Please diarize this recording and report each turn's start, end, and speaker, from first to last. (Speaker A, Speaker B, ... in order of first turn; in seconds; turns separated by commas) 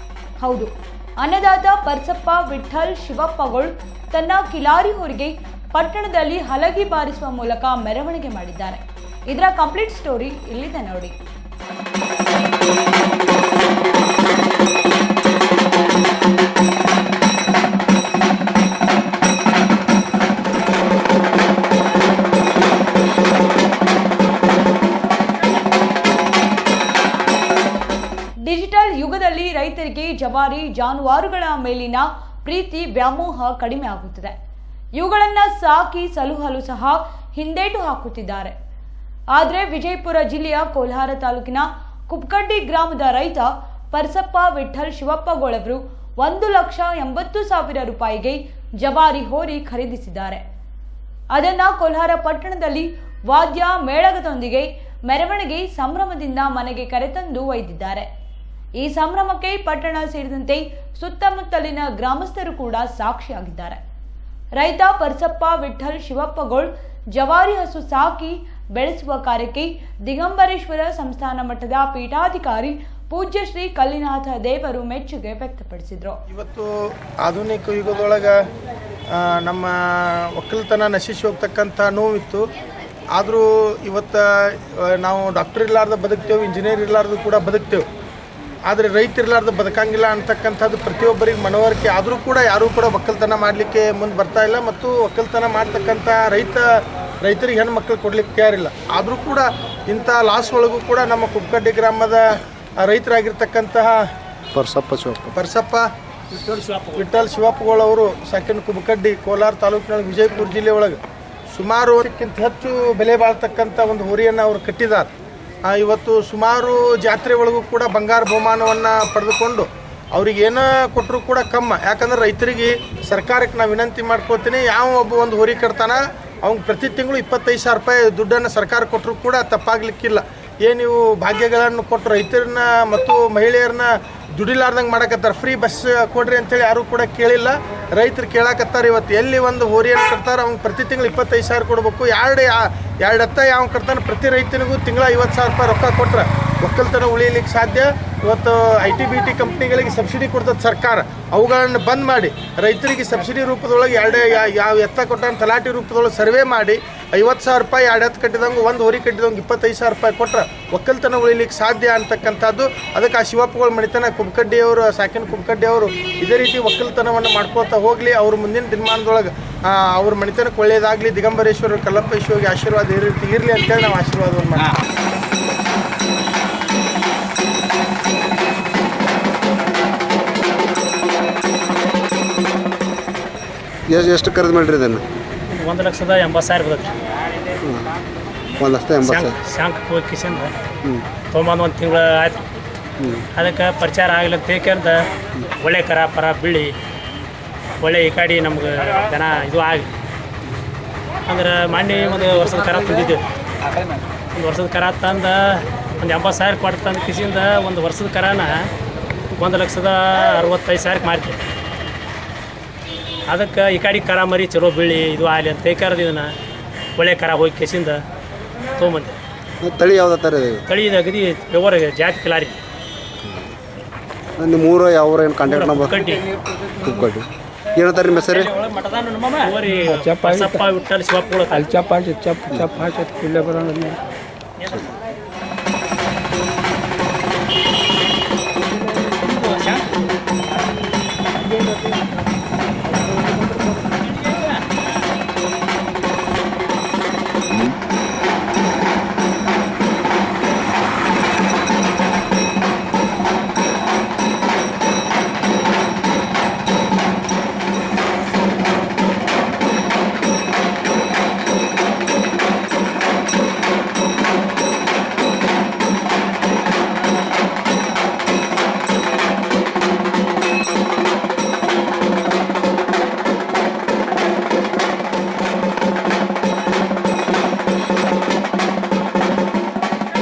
Speaker A: 0.4-11.2, Speaker A: 28.4-34.4, Speaker A: 35.0-38.5, Speaker A: 39.3-50.4, Speaker A: 51.3-58.1, Speaker A: 58.8-63.8, Speaker A: 64.6-76.2, Speaker B: 76.3-78.4, Speaker B: 79.2-82.5, Speaker B: 83.1-87.9, Speaker B: 88.7-96.7, Speaker B: 97.2-104.0, Speaker C: 104.5-105.3, Speaker B: 105.3-105.9, Speaker D: 106.3-107.0, Speaker B: 107.0-111.0, Speaker B: 111.5-115.1, Speaker B: 115.6-174.8, Speaker C: 183.9-185.0, Speaker D: 185.5-187.0, Speaker C: 188.6-189.3, Speaker D: 189.0-190.5, Speaker D: 191.3-192.4, Speaker C: 193.0-193.3, Speaker D: 193.3-195.1, Speaker D: 195.6-196.7, Speaker D: 197.8-199.9, Speaker D: 201.3-203.2, Speaker D: 204.3-208.7, Speaker D: 209.3-211.4, Speaker D: 213.3-216.3, Speaker D: 217.0-218.0, Speaker D: 218.8-219.2, Speaker C: 219.6-220.6, Speaker D: 220.7-222.6, Speaker C: 223.2-223.5, Speaker C: 224.4-226.0, Speaker D: 225.5-226.2, Speaker C: 226.8-228.5, Speaker D: 228.3-231.7, Speaker E: 229.8-230.6, Speaker E: 231.6-234.0, Speaker D: 234.6-234.9, Speaker D: 239.2-239.8